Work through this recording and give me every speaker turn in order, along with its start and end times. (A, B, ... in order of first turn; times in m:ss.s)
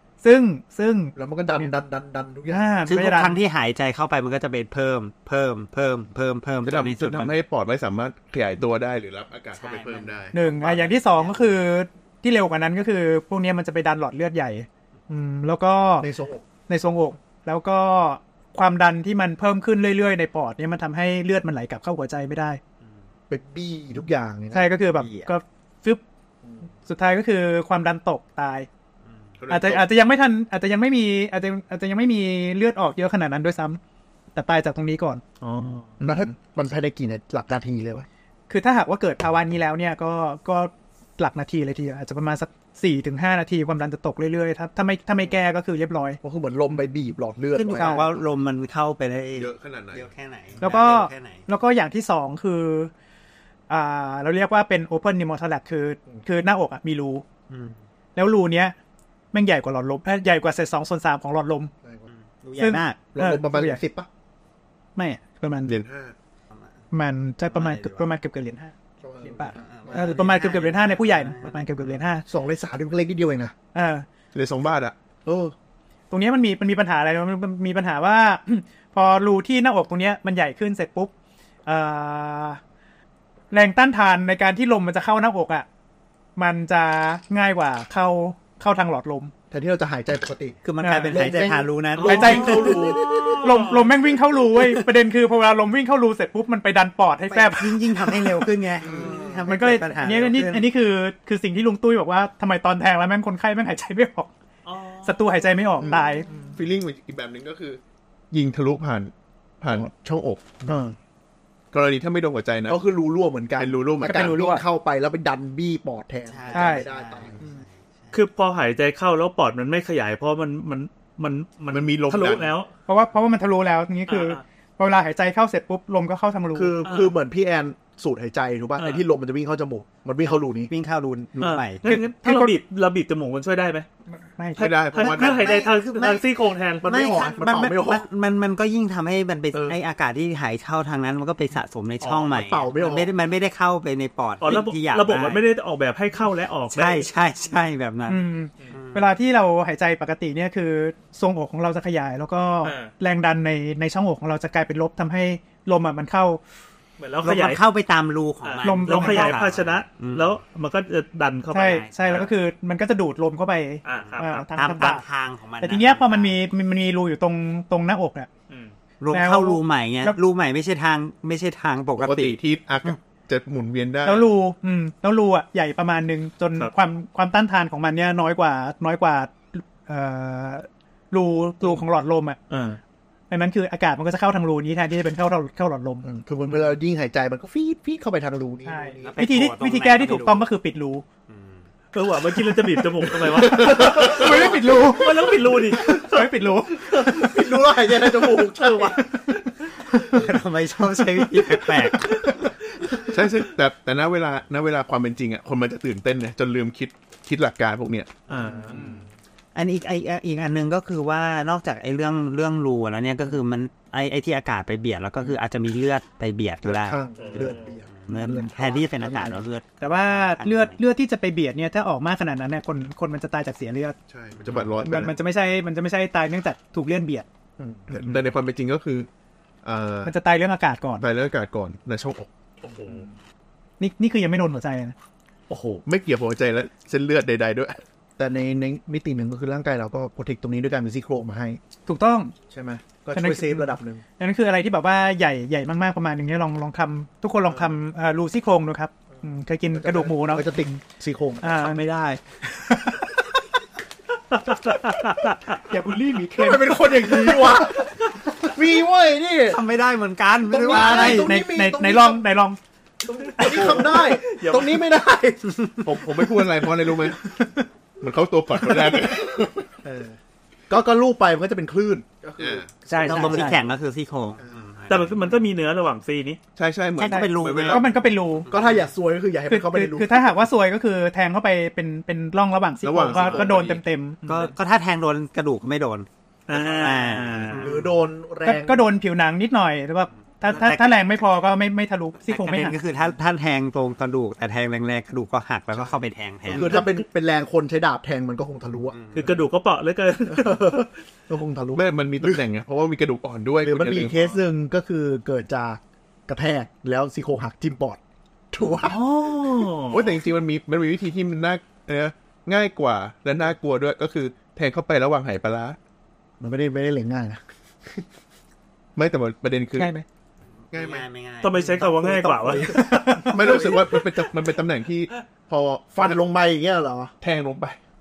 0:00.2-0:01.6 A
0:01.2-0:02.7 B
0:02.5-0:03.4 A
0:02.9-0:07.3 C
0:06.6-0:10.4 D
0:09.5-0:11.5 C
0:10.3-0:16.1 A
0:16.0-0:16.4 B
0:16.7-0:22.6 A
0:23.3-0:24.7 B
0:24.5-0:26.0 A
0:26.9-0:28.7 A
0:29.4-0:29.9 D
0:29.5-0:33.8 A
0:34.4-0:35.2 A
0:35.4-0:35.9 E
0:36.0-0:38.1 B
0:38.5-0:46.2 A
0:46.2-0:48.2 B
0:47.6-0:51.4 C
0:47.7-0:48.1 A
0:49.4-0:50.1 D
0:50.6-0:52.9 A
0:53.7-0:57.2 A
0:57.5-0:57.8 C
0:58.2-0:58.8 A
0:59.3-1:01.7 A
1:02.4-1:03.0 C
1:02.6-1:03.8 A
1:03.1-1:04.1 B
1:05.0-1:05.8 A
1:05.7-1:06.1 D
1:06.9-1:12.3 A
1:07.5-1:08.1 C
1:09.0-1:10.4 B
1:09.6-1:11.7 C
1:12.3-1:13.5 B
1:13.7-1:14.0 A
1:14.3-1:15.0 D
1:15.2-1:15.5 B
1:16.1-1:21.1 A
1:21.7-1:22.6 A
1:23.5-1:25.7 A
1:26.4-1:29.3 A
1:29.5-1:30.6 B
1:30.6-1:33.3 C
1:30.8-1:31.3 A
1:31.1-1:33.4 B
1:32.0-1:33.9 E
1:32.0-1:38.4 A
1:34.6-1:34.8 C
1:37.3-1:40.7 C
1:38.8-1:39.4 B
1:39.5-1:44.3 A
1:44.6-1:45.5 E
1:45.0-1:46.4 A
1:45.9-1:46.5 B
1:46.5-1:47.8 D
1:48.3-1:50.6 D
1:50.7-1:51.0 B
1:51.7-1:52.8 D
1:52.7-1:57.6 B
1:53.6-1:54.4 D
1:54.0-1:54.6 A
1:56.3-1:58.1 C
1:56.5-1:56.9 A
1:58.1-2:02.7 E
2:01.7-2:02.5 D
2:02.9-2:06.7 A
2:04.1-2:04.4 E
2:06.6-2:10.7 B
2:06.8-2:07.2 E
2:08.8-2:09.0 E
2:10.7-2:11.8 C
2:11.4-2:13.9 E
2:11.9-2:12.5 A
2:14.4-2:14.8 A
2:14.6-2:16.9 E
2:14.6-2:15.6 D
2:15.0-2:16.2 C
2:16.8-2:18.0 B
2:16.8-2:25.4 C
2:19.5-2:19.8 B
2:22.2-2:23.1 B
2:24.4-2:27.0 E
2:26.7-2:29.1 C
2:28.1-2:36.4 A
2:32.6-2:32.9 E
2:37.0-2:37.6 E
2:37.2-2:40.3 C
2:38.4-2:42.3 E
2:38.6-2:39.4 A
2:41.5-2:45.0 A
2:41.6-2:42.3 C
2:43.8-2:44.5 E
2:44.5-2:46.4 C
2:45.6-2:48.3 A
2:49.0-2:52.4 C
2:49.1-2:50.2 A
2:52.0-2:54.3 D
2:54.0-3:02.4 A
3:02.5-3:02.8 E
3:03.3-3:06.1 A
3:06.0-3:09.1 B
3:08.6-3:11.0 A
3:09.0-3:10.5 C
3:11.3-3:11.7 C
3:11.9-3:14.3 E
3:13.4-3:16.0 B
3:13.5-3:20.2 A
3:13.7-3:14.0 D
3:15.0-3:16.3 E
3:16.9-3:19.1 B
3:20.0-3:22.3 C
3:23.1-3:28.2 D
3:28.3-3:29.0 E
3:28.7-3:29.0 B
3:29.6-3:40.8 C
3:36.6-3:39.4 B
3:37.2-3:37.7 E
3:39.8-3:44.0 A
3:44.1-3:45.1 D
3:44.8-3:47.3 A
3:47.6-3:48.0 B
3:47.9-3:49.1 D
3:49.6-3:50.1 D
3:50.0-3:51.0 A
3:51.0-3:52.8 D
3:52.8-3:53.1 B
3:53.8-3:55.0 A
3:55.5-3:55.8 E
3:55.9-3:57.8 D
3:58.2-4:01.6 B
4:01.9-4:02.3 A
4:02.5-4:04.0 B
4:03.2-4:10.8 A
4:07.5-4:07.7 B
4:09.7-4:11.8 B
4:11.4-4:13.2 A
4:14.3-4:15.6 E
4:15.7-4:17.7 A
4:16.2-4:19.6 B
4:19.5-4:21.3 C
4:20.5-4:22.2 B
4:20.7-4:22.6 A
4:23.0-4:25.9 B
4:23.3-4:24.2 A
4:23.4-4:24.8 E
4:25.8-4:27.2 D
4:28.0-4:29.8 D
4:29.8-4:30.2 B
4:30.7-4:33.6 B
4:32.4-4:32.7 D
4:32.9-4:33.6 A
4:33.0-4:35.1 C
4:34.9-4:36.4 E
4:36.6-4:38.0 D
4:37.0-4:37.9 C
4:37.0-4:38.5 A
4:38.5-4:38.8 C
4:38.5-4:40.3 B
4:39.5-4:44.2 A
4:42.8-4:43.8 D
4:44.3-4:47.8 C
4:46.5-4:47.8 E
4:47.5-4:48.9 B
4:48.4-4:52.8 A
4:50.5-4:51.0 C
4:52.3-4:56.8 C
4:56.5-4:59.0 B
4:56.6-4:56.9 E
4:59.1-5:00.8 E
5:00.4-5:02.4 B
5:01.7-5:04.4 D
5:03.6-5:08.0 B
5:08.5-5:09.0 B
5:08.8-5:10.1 E
5:09.9-5:15.8 D
5:16.4-5:18.0 B
5:19.0-5:19.9 D
5:19.8-5:20.0 A
5:20.7-5:21.6 C
5:20.7-5:21.0 D
5:21.4-5:22.8 E
5:21.8-5:24.0 B
5:22.5-5:23.6 A
5:23.2-5:26.2 D
5:25.9-5:27.1 B
5:27.2-5:27.8 D